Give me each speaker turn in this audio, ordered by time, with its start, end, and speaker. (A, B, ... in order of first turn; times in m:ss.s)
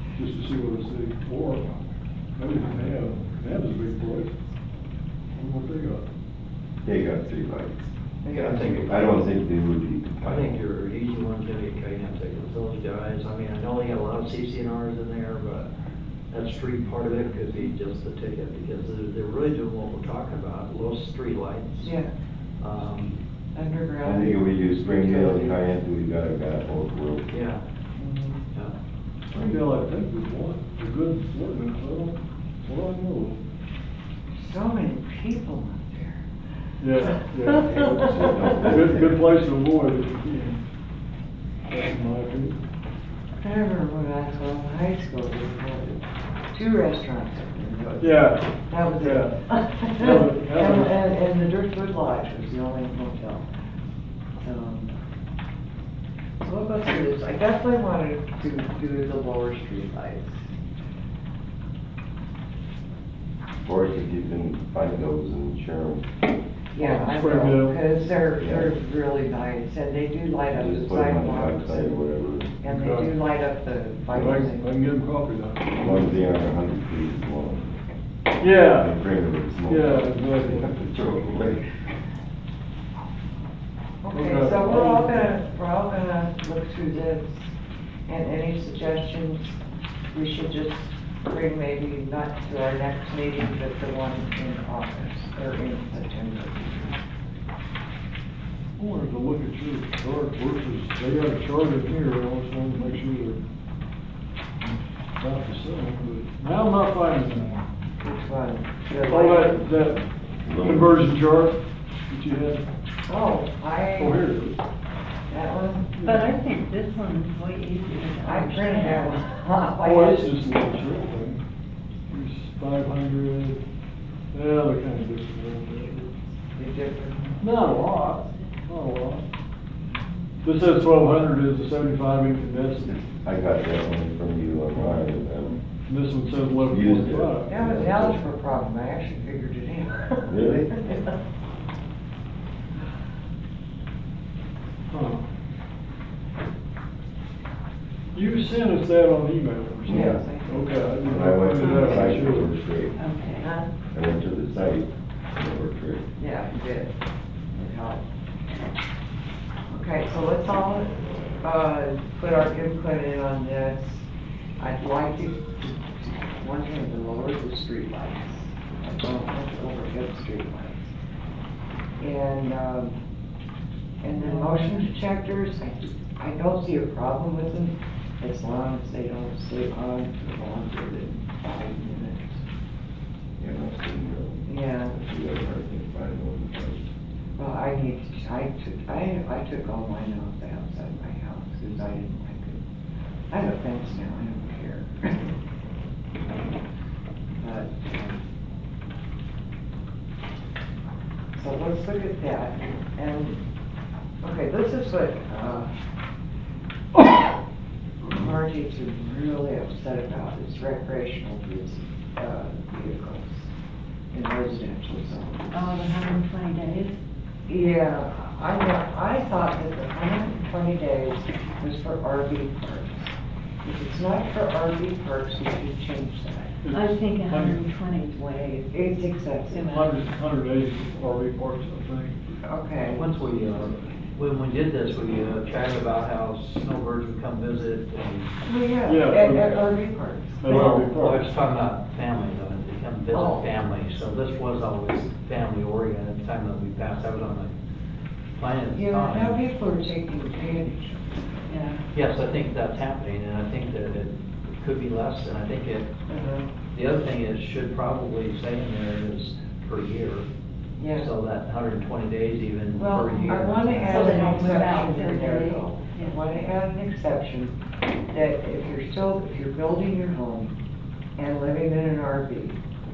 0:00.2-0:04.3 A
0:05.3-0:06.0 A
0:06.8-0:07.8 B
0:08.2-0:08.8 C
0:08.3-0:09.2 D
0:08.6-0:10.6 B
0:10.2-0:15.7 D
0:16.3-0:21.9 D
0:21.8-0:22.1 C
0:22.6-0:23.2 D
0:23.5-0:25.6 C
0:24.0-0:27.4 B
0:27.3-0:27.6 D
0:28.0-0:28.4 C
0:29.3-0:33.4 A
0:34.3-0:36.2 C
0:36.8-0:40.6 A
0:37.0-0:38.6 C
0:37.9-0:39.2 B
0:41.7-0:42.6 A
0:43.4-0:53.5 C
0:48.0-0:49.4 A
0:50.0-0:51.0 A
0:54.4-0:54.9 C
0:56.4-1:00.4 C
1:03.6-1:06.1 B
1:06.7-1:12.1 C
1:06.8-1:07.8 A
1:08.4-1:08.7 B
1:10.5-1:12.6 B
1:12.6-1:14.7 C
1:12.6-1:13.1 A
1:14.1-1:16.2 A
1:15.8-1:17.8 B
1:18.4-1:18.9 A
1:18.6-1:21.6 B
1:19.7-1:20.8 A
1:24.0-1:27.5 C
1:24.1-1:25.3 A
1:28.1-1:29.6 C
1:30.1-1:37.0 C
1:38.8-1:43.4 A
1:44.6-1:47.7 A
1:48.0-1:49.8 C
1:49.0-1:50.0 A
1:50.4-1:51.0 B
1:50.6-1:51.6 A
1:52.1-1:52.6 A
1:53.1-1:54.2 C
1:54.0-1:54.6 A
1:55.3-1:55.9 C
1:55.9-1:56.4 A
1:56.0-1:59.3 E
1:58.2-2:00.3 C
1:59.8-2:01.4 A
2:02.1-2:03.6 A
2:04.3-2:06.1 A
2:06.5-2:07.4 C
2:07.4-2:09.2 A
2:10.4-2:13.0 A
2:13.0-2:15.6 B
2:15.9-2:17.8 A
2:16.6-2:18.2 B
2:17.5-2:21.1 C
2:20.3-2:20.7 B
2:24.9-2:25.2 A
2:28.1-2:32.5 A
2:29.8-2:30.2 B
2:29.9-2:30.7 C
2:31.0-2:33.0 B
2:31.6-2:32.0 E
2:33.0-2:33.5 E
2:33.4-2:33.7 C
2:33.9-2:36.0 B
2:36.2-2:36.9 C
2:37.5-2:38.0 C
2:39.7-2:44.0 C
2:44.6-2:50.9 C
2:52.0-2:53.0 C
2:54.0-3:02.4 C
2:54.1-2:54.9 E
3:03.4-3:06.9 B
3:04.5-3:04.9 C
3:07.4-3:12.6 C
3:13.3-3:15.3 C
3:17.4-3:18.2 C
3:21.4-3:23.4 C
3:24.2-3:25.7 C
3:26.9-3:27.4 C
3:28.0-3:33.5 C
3:34.1-3:35.6 C
3:35.5-3:37.0 E
3:37.5-3:46.6 C
3:46.6-3:47.6 A
3:46.7-3:48.6 E
3:48.6-3:49.6 C
3:49.5-3:49.9 E
3:49.6-3:52.2 A
3:52.4-3:53.1 C
3:52.9-3:58.3 D
3:58.4-4:00.9 C
3:58.8-3:59.6 A
4:00.4-4:01.3 A
4:00.4-4:07.5 D
4:03.1-4:03.5 C
4:08.3-4:09.4 D
4:08.7-4:11.6 C
4:11.5-4:11.8 E
4:11.9-4:15.9 D
4:16.1-4:16.5 C
4:16.7-4:20.3 D
4:20.8-4:21.1 C
4:21.0-4:24.6 D
4:22.7-4:27.6 C
4:22.9-4:26.5 E
4:28.1-4:30.6 C
4:31.2-4:32.6 C